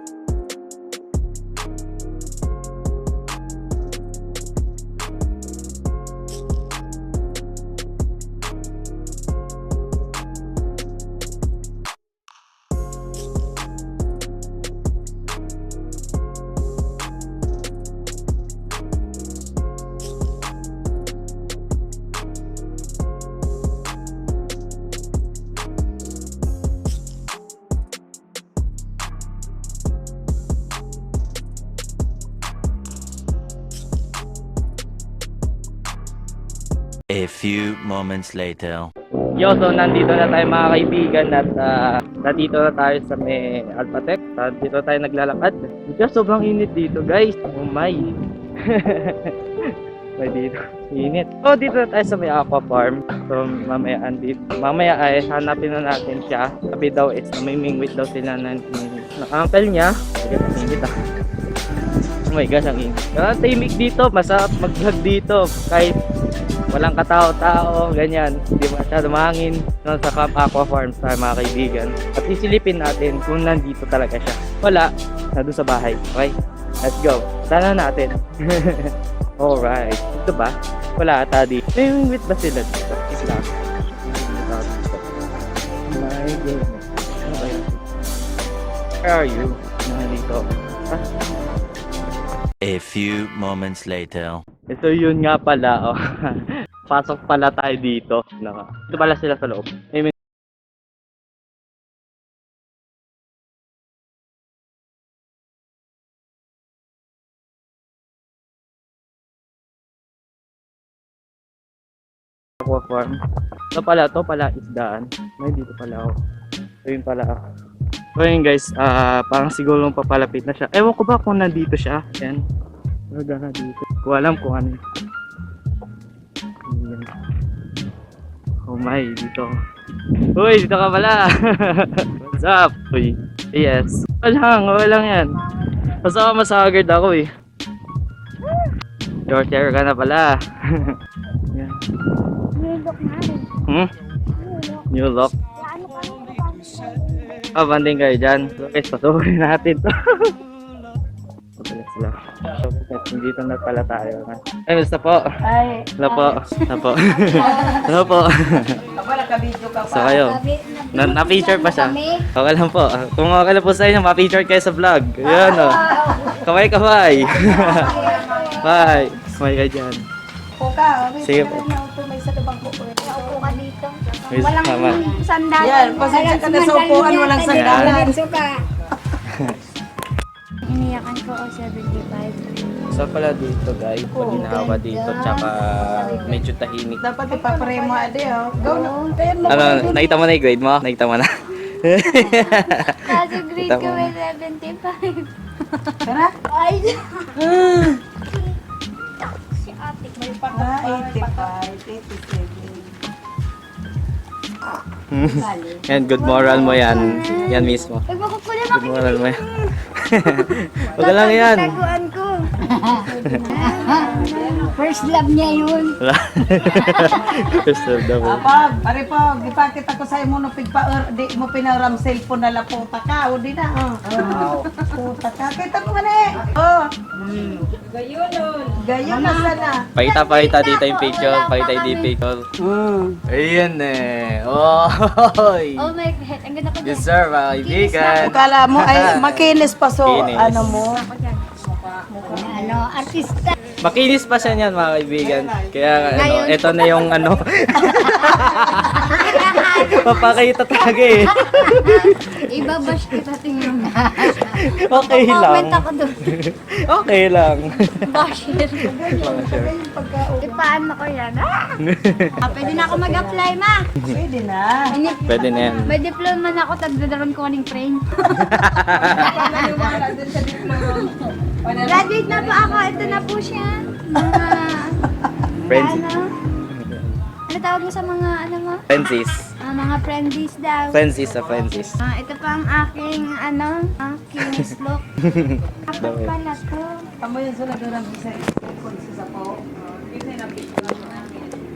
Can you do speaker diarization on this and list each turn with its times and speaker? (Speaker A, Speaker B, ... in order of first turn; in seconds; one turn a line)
Speaker A: 37.1-38.9
Speaker B: 39.4-60.9
Speaker B: 62.3-66.0
Speaker B: 66.7-85.1
Speaker B: 85.9-87.8
Speaker B: 89.0-91.0
Speaker A: 92.6-94.5
Speaker B: 94.7-100.1
Speaker B: 112.6-113.2
Speaker B: 113.7-116.1
Speaker B: 116.8-117.4
Speaker B: 118.2-122.4
Speaker B: 123.1-124.8
Speaker B: 126.7-127.1
Speaker B: 128.7-129.5
Speaker B: 130.4-135.3
Speaker C: 135.3-136.0
Speaker B: 136.0-137.3
Speaker B: 139.3-141.0
Speaker B: 141.5-141.8
Speaker C: 142.6-143.6
Speaker B: 143.7-143.9
Speaker C: 144.3-144.9
Speaker B: 144.9-145.3
Speaker C: 145.6-147.4
Speaker B: 147.6-150.4
Speaker B: 151.6-155.3
Speaker D: 155.4-155.9
Speaker B: 156.0-158.8
Speaker C: 156.1-157.9
Speaker D: 157.4-157.9
Speaker D: 159.0-160.1
Speaker B: 159.9-160.4
Speaker C: 160.0-162.3
Speaker B: 160.9-165.8
Speaker C: 165.2-166.4
Speaker D: 165.7-166.3
Speaker B: 166.4-168.0
Speaker C: 167.3-169.1
Speaker D: 167.3-168.6
Speaker B: 168.6-170.0
Speaker D: 170.6-173.6
Speaker B: 171.2-171.7
Speaker C: 173.0-178.6
Speaker B: 174.3-175.1
Speaker D: 175.6-178.2
Speaker B: 177.5-178.1
Speaker B: 179.3-179.6
Speaker C: 180.7-182.7
Speaker B: 182.9-187.0
Speaker C: 184.2-186.4
Speaker D: 187.0-189.9
Speaker C: 187.2-190.2
Speaker B: 189.5-194.1
Speaker C: 192.1-197.5
Speaker D: 196.1-196.3
Speaker D: 197.4-197.9
Speaker C: 198.2-198.6
Speaker C: 199.4-201.5
Speaker D: 200.2-202.9
Speaker B: 205.1-208.0
Speaker D: 205.3-205.8
Speaker C: 206.2-212.5
Speaker D: 206.9-207.5
Speaker B: 208.7-211.8
Speaker D: 212.6-214.8
Speaker B: 213.2-213.5
Speaker C: 213.5-216.0
Speaker B: 216.0-218.5
Speaker C: 216.7-217.6
Speaker D: 218.1-227.7
Speaker C: 224.2-224.5
Speaker C: 227.8-232.1
Speaker D: 228.8-229.8
Speaker B: 230.0-232.5
Speaker D: 232.6-233.2
Speaker B: 233.3-235.9
Speaker C: 235.8-237.1
Speaker B: 236.8-239.5
Speaker C: 237.6-238.3
Speaker D: 238.2-241.0
Speaker B: 240.0-240.8
Speaker C: 240.6-241.4
Speaker D: 241.7-243.1
Speaker C: 242.1-243.4
Speaker B: 243.8-249.2
Speaker D: 245.2-245.7
Speaker C: 246.1-247.1
Speaker C: 247.8-256.2
Speaker B: 249.8-253.0
Speaker B: 254.4-258.1
Speaker C: 258.1-258.9
Speaker D: 258.7-260.7
Speaker B: 259.1-259.7
Speaker C: 260.4-261.8
Speaker B: 261.8-262.4
Speaker D: 262.4-263.4
Speaker C: 262.4-263.9
Speaker D: 264.1-264.9
Speaker C: 264.9-270.0
Speaker B: 265.3-265.9
Speaker B: 268.4-269.3
Speaker D: 269.1-273.3
Speaker C: 270.7-271.1
Speaker C: 271.8-275.0
Speaker D: 274.2-274.5
Speaker B: 275.7-276.0
Speaker C: 275.7-276.3
Speaker B: 276.7-277.2
Speaker C: 277.5-278.9
Speaker B: 278.9-279.5
Speaker C: 279.6-281.0
Speaker B: 280.9-282.0
Speaker C: 282.0-285.1
Speaker B: 284.4-286.3
Speaker C: 285.9-287.0
Speaker D: 287.2-291.3